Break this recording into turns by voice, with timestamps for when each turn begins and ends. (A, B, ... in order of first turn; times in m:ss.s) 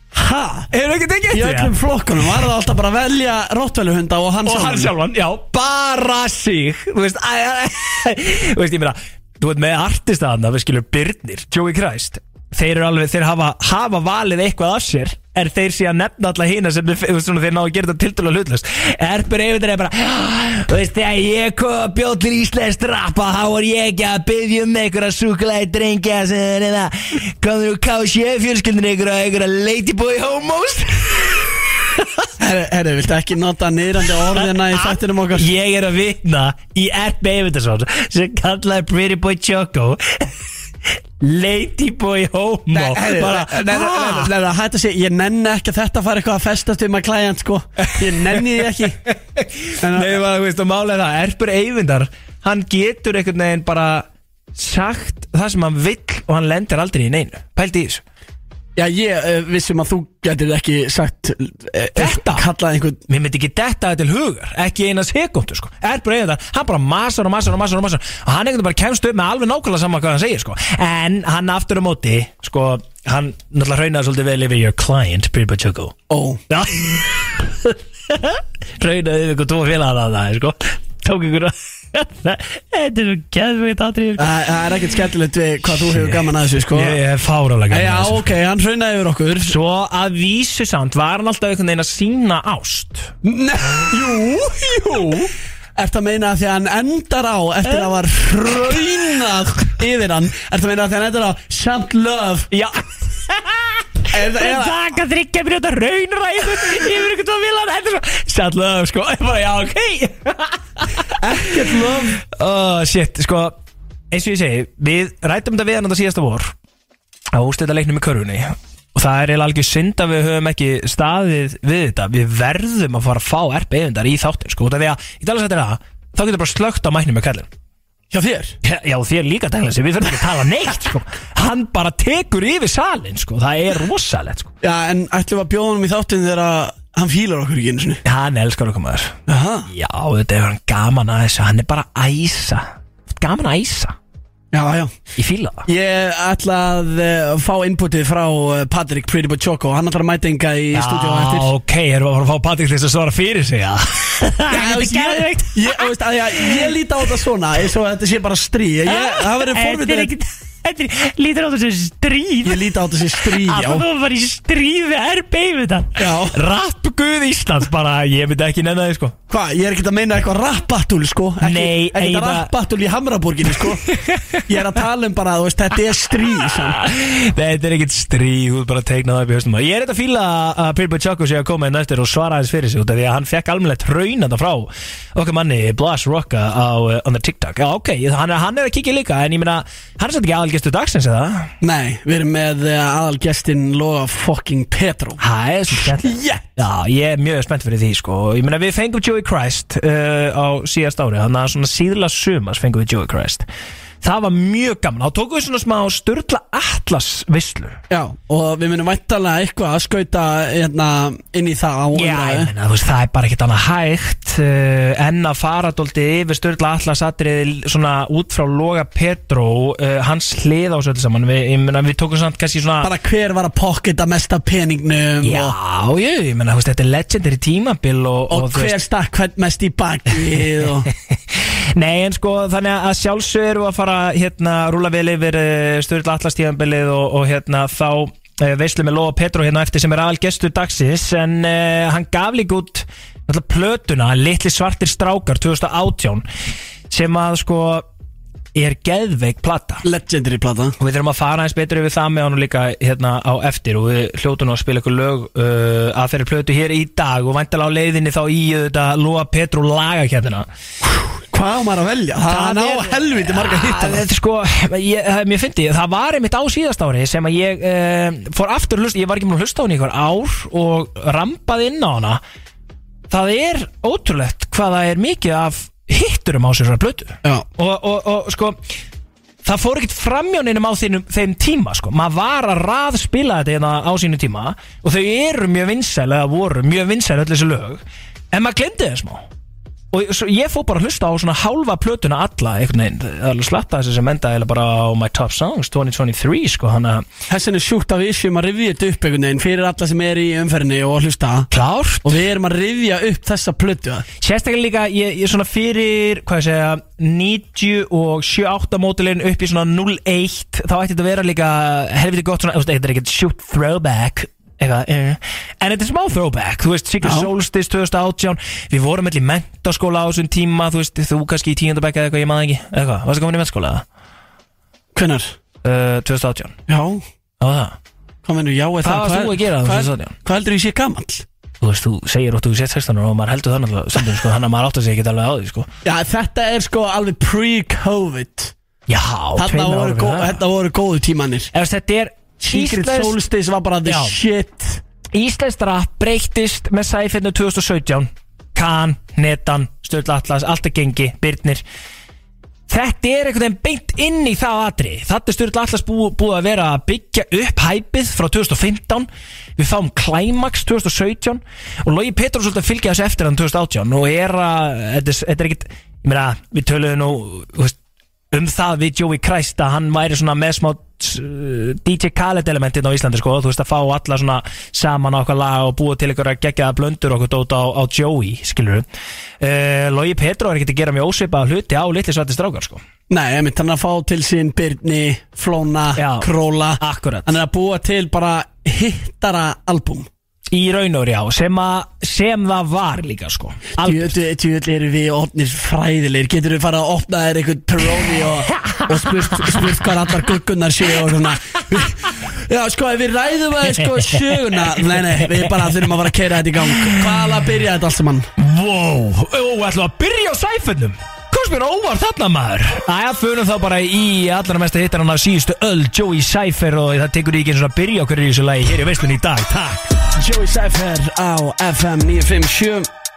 0:00.1-0:00.7 A
0:00.7-0:01.7 B
0:01.3-0:05.0 A
0:04.4-0:32.3 B
0:32.4-0:35.5 A
0:34.3-0:40.3 B
0:41.2-0:44.3 B
0:42.7-0:49.0 A
0:47.8-0:58.0 B
0:49.8-0:50.2 A
0:58.8-1:03.0 A
1:02.0-1:02.4 B
1:03.1-1:15.9 B
1:16.1-1:16.4 A
1:16.5-1:24.4 B
1:24.2-1:27.0 A
1:25.7-1:28.2 B
1:27.7-1:29.6 A
1:29.5-1:33.1 B
1:33.2-1:42.5 A
1:37.6-1:37.9 B
1:42.5-1:51.1 B
1:44.1-1:44.9 A
1:51.2-1:52.2 A
1:52.2-1:53.6 B
1:54.1-1:56.5 B
1:57.3-2:07.5 B
2:08.1-2:08.6 A
2:08.6-2:14.5 B
2:14.6-2:18.0 A
2:18.0-2:24.0 B
2:19.3-2:19.7 A
2:24.5-2:24.9 A
2:25.2-2:25.6 B
2:25.6-2:31.5 A
2:30.7-2:35.8 B
2:34.5-2:40.1 A
2:36.4-2:36.7 B
2:38.9-2:49.2 B
2:42.4-2:43.8 A
2:46.0-2:46.4 A
2:49.3-2:53.8 A
2:51.4-2:52.5 B
2:53.8-2:54.4 B
2:54.5-2:56.8 A
2:56.4-3:11.5 B
3:11.6-3:16.4 A
3:15.2-3:23.4 B
3:24.0-3:27.8 B
3:27.9-3:32.5 A
3:31.9-3:42.9 B
3:42.8-3:45.5 A
3:45.2-3:48.8 B
3:48.3-3:50.9 A
3:51.1-4:06.2 B
4:06.9-4:07.8 B
4:08.5-4:09.8 B
4:09.8-4:10.8 A
4:10.8-4:20.5 B
4:20.8-4:24.0 A
4:22.2-4:32.2 B
4:33.1-4:38.6 B
4:39.4-4:49.2 B
4:49.9-4:57.0 B
4:57.3-5:01.5 A
5:01.5-5:02.2 B
5:02.0-5:04.0 A
5:04.2-5:23.8 B
5:17.0-5:17.3 A
5:24.9-5:25.3 A
5:25.6-5:26.6 B
5:26.7-5:27.0 A
5:27.4-5:27.8 B
5:28.2-5:31.2 A
5:28.8-5:30.1 B
5:31.6-5:35.7 B
5:35.8-5:38.5 A
5:38.9-5:40.4 B
5:39.4-5:41.5 A
5:41.5-5:43.2 B
5:42.5-5:44.8 A
5:43.8-5:44.2 B
5:45.1-5:51.6 B
5:52.7-6:07.8 B
6:08.3-6:18.8 B
6:19.4-6:22.8 B
6:23.1-6:30.1 A
6:26.0-6:27.4 B
6:30.5-6:34.2 B
6:33.8-6:48.3 A
6:38.6-6:39.8 B
6:41.0-6:41.9 B
6:43.8-6:45.9 B
6:46.6-6:47.3 B
6:48.4-6:59.9 B
7:00.1-7:02.9 A